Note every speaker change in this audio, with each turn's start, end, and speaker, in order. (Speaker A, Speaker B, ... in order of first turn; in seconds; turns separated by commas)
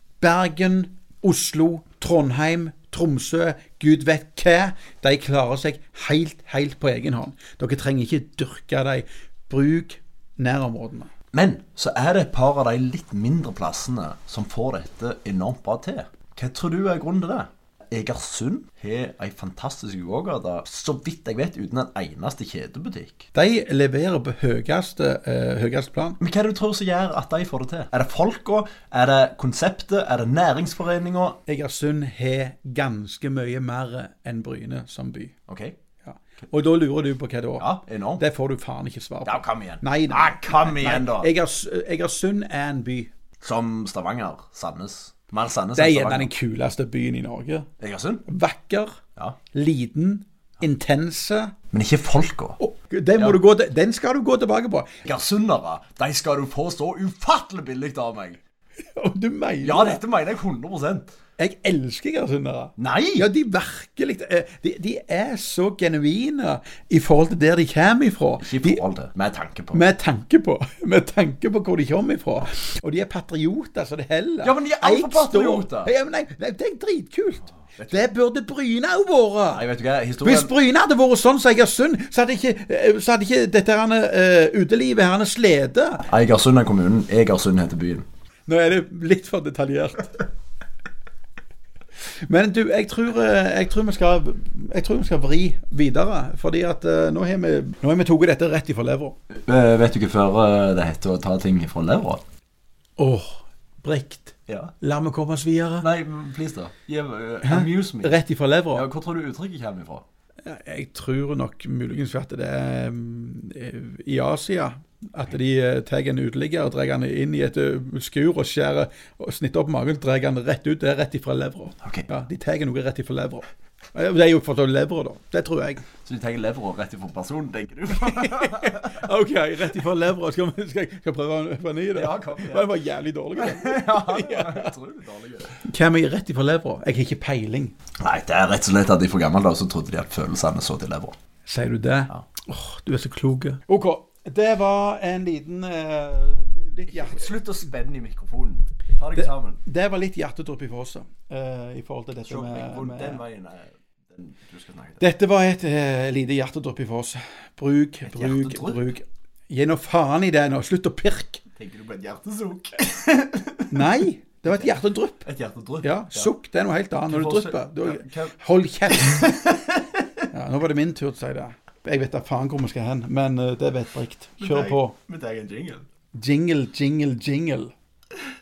Speaker A: 0.2-11.1, Speaker B: 11.3-23.2, Speaker A: 23.3-26.2, Speaker B: 26.2-31.4, Speaker A: 31.5-35.3, Speaker B: 35.5-35.8, Speaker A: 36.0-43.1, Speaker B: 37.6-38.2, Speaker B: 39.2-41.3, Speaker B: 43.4-46.3, Speaker A: 45.8-47.7, Speaker B: 47.8-48.2, Speaker A: 48.3-49.0, Speaker A: 49.5-51.5, Speaker B: 51.7-52.6, Speaker A: 52.6-55.0, Speaker B: 55.0-58.4, Speaker A: 58.9-60.0, Speaker B: 59.6-61.1, Speaker A: 61.4-68.8, Speaker B: 62.8-63.3, Speaker B: 68.4-69.8, Speaker A: 69.7-79.6, Speaker B: 74.4-75.9, Speaker B: 77.8-78.1, Speaker B: 79.5-80.5, Speaker A: 80.2-86.1, Speaker B: 86.1-88.0, Speaker A: 88.5-90.2, Speaker A: 92.3-99.2, Speaker B: 99.5-102.2, Speaker A: 103.0-105.9, Speaker B: 104.5-104.7, Speaker B: 105.8-108.2, Speaker A: 107.4-108.8, Speaker B: 108.7-110.0, Speaker A: 110.4-125.8, Speaker B: 126.0-128.9, Speaker A: 127.9-134.7, Speaker B: 131.9-132.7, Speaker B: 133.4-135.6, Speaker A: 135.6-137.7, Speaker B: 138.0-141.1, Speaker A: 141.4-147.4, Speaker B: 146.9-149.6, Speaker A: 149.1-153.2, Speaker B: 152.2-155.0, Speaker A: 155.0-161.4, Speaker B: 158.1-158.8, Speaker B: 161.6-164.7, Speaker A: 163.7-165.2, Speaker B: 165.2-166.3, Speaker A: 165.8-169.4, Speaker B: 167.1-168.4, Speaker B: 168.9-170.0, Speaker A: 170.3-174.9, Speaker B: 174.4-175.9, Speaker A: 176.1-177.7